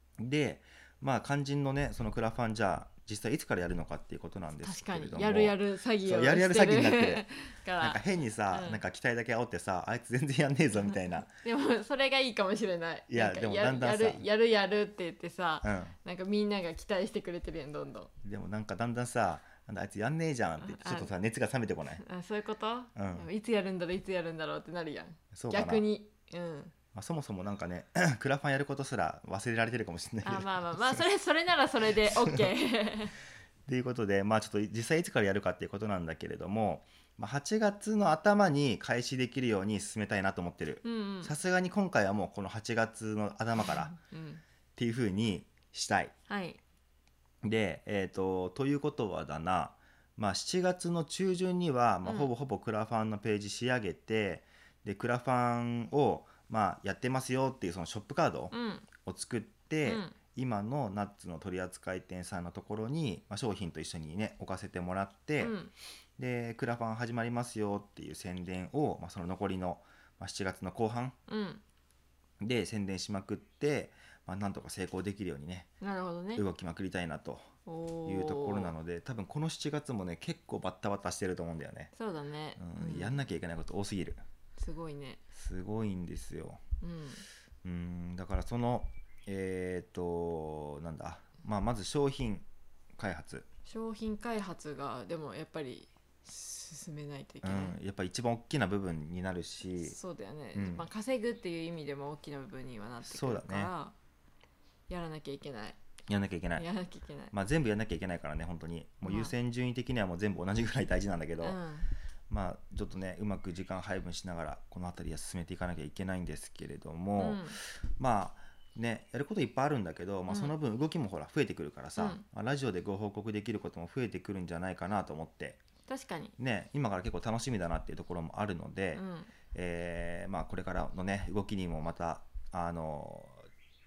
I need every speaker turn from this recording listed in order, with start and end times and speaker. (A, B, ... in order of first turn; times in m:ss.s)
0:00.2-0:07.3 A
0:04.6-0:08.8 B
0:07.8-0:11.4 A
0:11.4-0:18.1 B
0:13.1-0:14.3 A
0:15.6-0:16.0 A
0:18.2-0:22.0 A
0:20.6-0:21.1 B
0:22.0-0:26.7 B
0:23.0-0:23.3 A
0:25.3-0:25.9 A
0:26.9-0:31.0 A
0:30.2-0:33.2 B
0:32.0-0:32.5 A
0:33.7-0:44.0 A
0:40.8-0:41.3 B
0:43.6-0:44.4 B
0:44.8-0:46.1 A
0:46.3-0:46.6 B
0:47.4-0:58.5 A
0:52.0-0:52.3 B
0:58.5-0:58.9 B
0:59.0-1:05.6 A
0:59.8-1:00.2 B
1:05.4-1:05.7 B
1:06.2-1:11.2 A
1:11.3-1:11.6 B
1:12.4-1:15.7 A
1:15.8-1:16.4 B
1:16.4-1:17.5 A
1:17.7-1:18.7 B
1:18.1-1:21.9 A
1:21.9-1:23.2 B
1:22.6-1:24.2 A
1:24.6-1:25.2 B
1:25.3-1:26.6 A
1:26.8-1:27.2 B
1:27.6-1:33.5 A
1:33.7-1:37.8 B
1:37.4-1:40.0 A
1:39.8-1:43.9 B
1:40.5-1:40.8 A
1:43.0-1:43.7 A
1:44.9-1:45.8 B
1:46.1-1:46.6 A
1:46.6-1:47.3 B
1:47.3-1:51.6 A
1:49.0-1:49.3 B
1:51.4-1:51.9 B
1:52.3-2:05.6 A
1:57.2-1:57.6 B
2:00.3-2:00.5 B
2:02.0-2:02.2 B
2:05.9-2:06.3 B
2:06.4-2:09.0 A
2:08.9-2:09.3 B
2:09.5-2:13.4 A